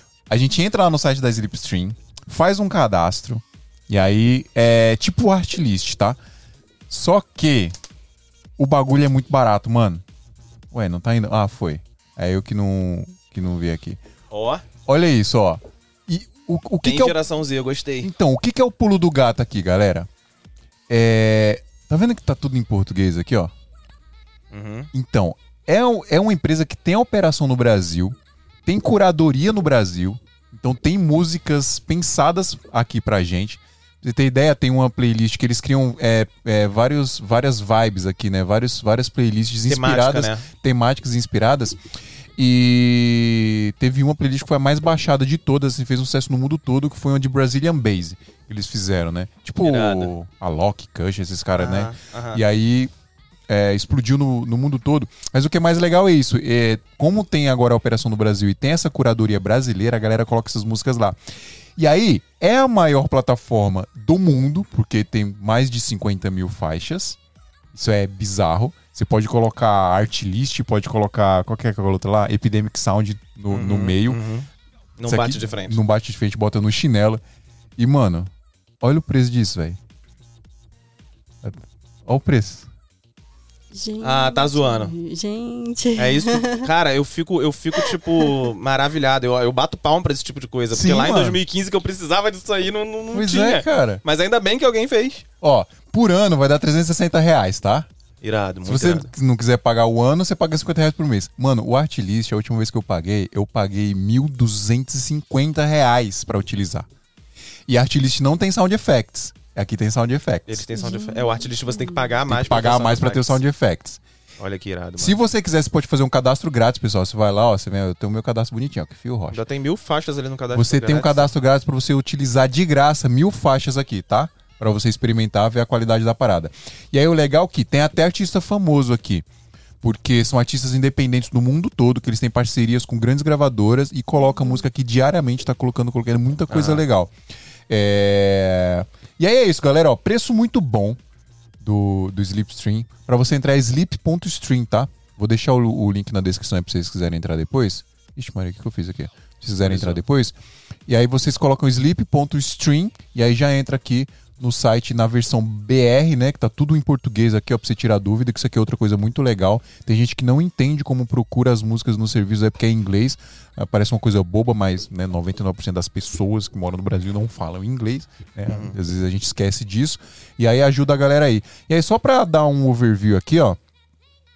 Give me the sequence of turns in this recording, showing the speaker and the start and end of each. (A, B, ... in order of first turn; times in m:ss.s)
0:00.3-0:06.2 A
0:06.9-0:07.7 A
0:08.6-0:10.0 A
0:10.7-0:14.0 A
0:14.3-0:14.6 B
0:14.8-0:17.2 A
0:16.8-0:18.1 B
0:18.0-0:20.1 A
0:20.9-0:23.5 A
0:24.5-0:24.9 B
0:24.9-0:41.8 A
0:39.7-0:40.4 B
0:42.4-0:52.9 A
0:49.6-0:50.1 B
0:51.6-0:52.4 B
0:53.5-1:01.2 A
1:01.8-1:07.2 A
1:07.7-1:14.2 A
1:13.5-1:15.8 B
1:15.1-1:17.2 A
1:17.8-1:18.3 A
1:18.8-1:19.8 A
1:21.4-1:22.7 A
1:23.7-1:26.7 C
1:24.0-1:24.9 B
1:26.0-1:35.2 B
1:27.8-1:28.4 C
1:30.7-1:31.4 A
1:33.1-1:34.0 A
1:35.4-1:37.9 A
1:38.2-1:39.1 B
1:38.6-1:46.9 A
1:47.7-1:50.6 A
1:50.5-1:53.4 B
1:50.8-1:52.0 C
1:52.3-1:54.0 A
1:54.4-1:55.2 B
1:55.0-1:59.4 A
1:59.3-2:01.3 B
2:00.5-2:09.2 A
2:09.8-2:17.1 A
2:16.5-2:16.8 B
2:17.7-2:21.0 A
2:21.6-2:30.3 A
2:29.6-2:30.0 B
2:30.9-2:53.6 A
2:48.5-2:48.8 B